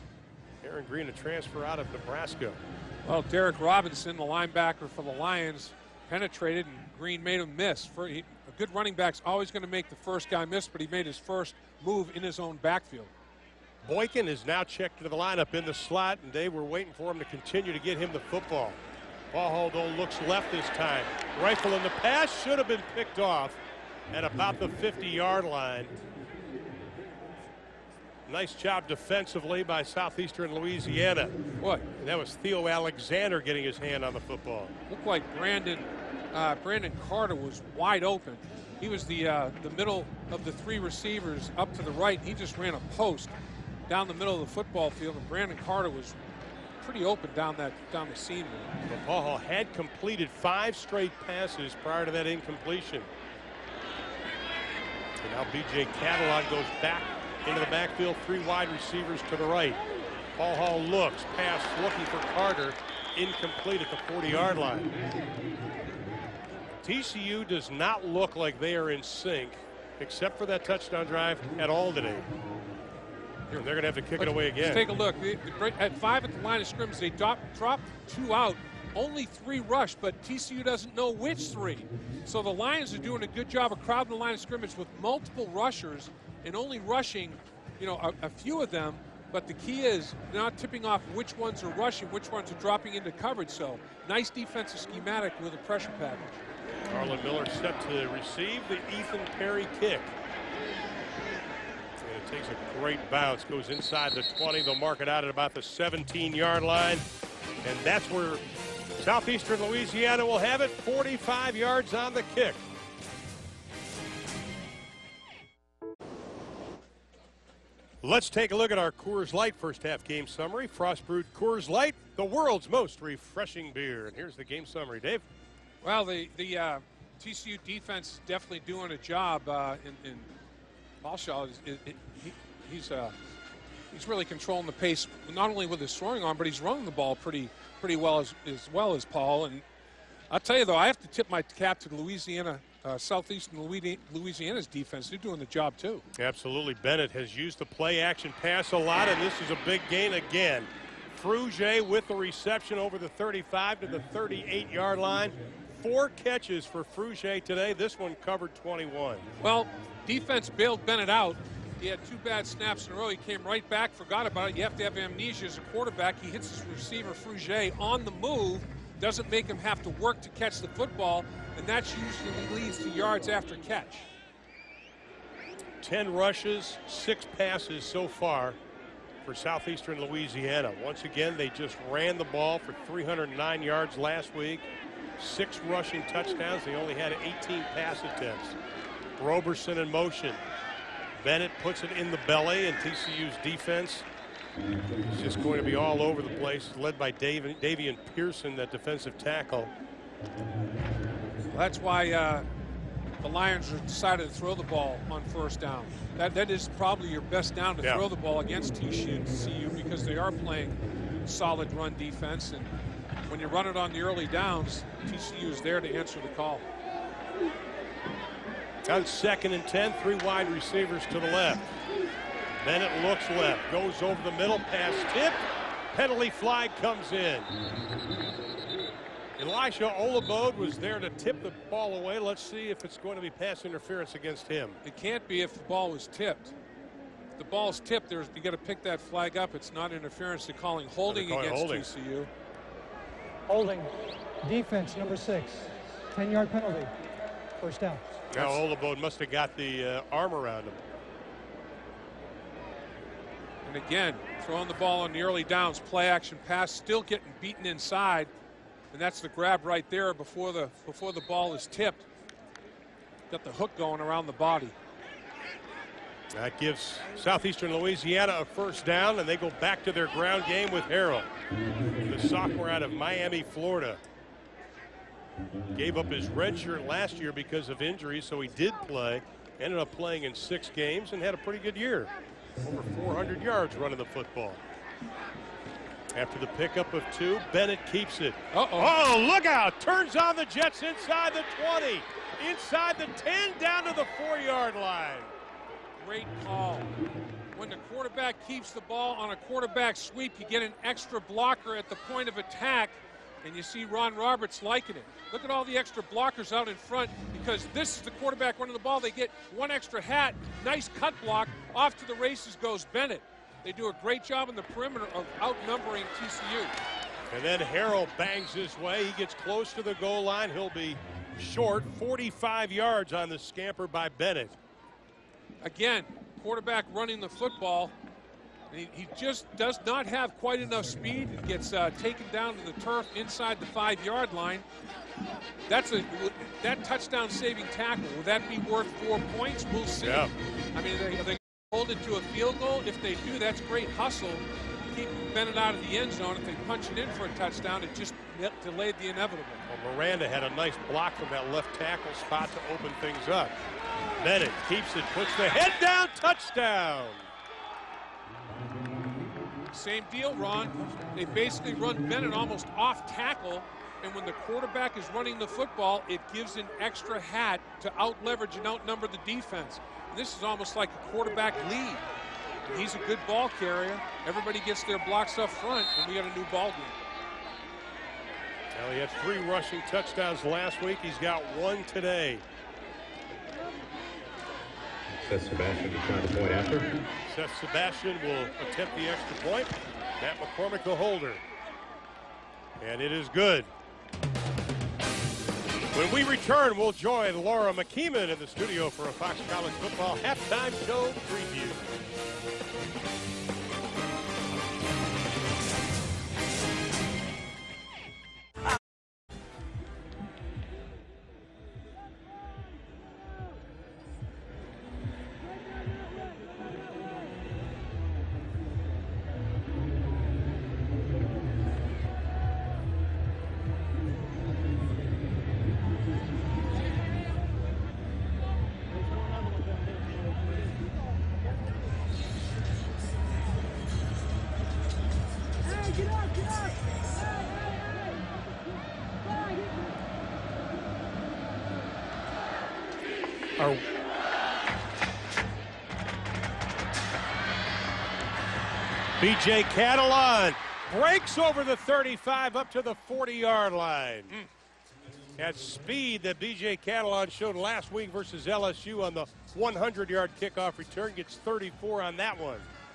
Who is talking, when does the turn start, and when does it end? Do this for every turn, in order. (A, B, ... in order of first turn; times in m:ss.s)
0:00.6-0:02.6 A
0:03.0-0:13.1 B
0:13.8-0:18.8 A
0:19.3-0:23.6 A
0:24.1-0:25.9 A
0:28.2-0:31.4 A
0:31.6-0:31.9 B
0:32.0-0:34.8 A
0:34.9-0:43.3 B
0:43.9-0:46.2 B
0:46.8-0:48.7 B
0:48.9-0:53.1 A
0:55.2-0:59.8 A
1:00.4-1:04.9 A
1:06.8-1:12.3 A
1:13.5-1:36.3 B
1:13.5-1:14.8 A
1:36.9-1:40.1 A
1:42.0-1:47.0 A
1:47.6-1:48.4 A
1:49.0-1:52.6 A
1:58.0-2:05.2 A
2:05.8-2:10.3 B
2:11.0-2:13.1 B
2:13.9-2:19.6 B
2:20.3-2:26.0 B
2:26.1-2:39.3 A
2:39.4-2:54.1 B
2:55.8-2:58.6 A
2:59.2-3:08.6 A
3:09.2-3:10.4 A
3:11.2-3:14.1 A
3:15.1-3:19.7 A
3:21.5-3:22.5 B
3:23.2-3:32.7 B
3:33.3-3:36.7 B
3:38.8-3:41.7 A
3:42.6-3:47.5 A
3:49.4-3:54.8 A
3:54.8-3:56.5 B
3:57.4-4:02.3 B
4:01.0-4:01.9 A
4:03.5-4:06.9 C
4:07.6-4:08.2 C
4:08.3-4:10.8 A
4:13.6-4:18.3 B
4:18.9-4:22.1 B
4:23.3-4:24.7 B
4:26.3-4:31.3 A
4:32.0-4:34.0 A
4:35.7-4:44.6 A
4:46.1-4:55.3 A
4:48.5-4:48.9 B
4:56.0-4:57.0 B
4:57.5-5:16.7 B
5:17.3-5:24.6 A
5:25.6-5:27.9 B
5:28.7-5:34.6 B
5:35.7-5:49.6 B
5:40.0-5:40.3 A
5:49.6-5:53.6 A
5:54.2-5:57.3 A
5:59.7-6:12.0 B
6:12.7-6:16.9 B
6:18.7-6:22.4 A
6:25.1-6:27.1 D
6:27.3-6:31.4 A
6:32.8-6:33.7 A
6:35.9-6:41.9 A
7:23.6-7:23.8 A
7:29.2-7:34.3 A
7:35.4-7:42.7 A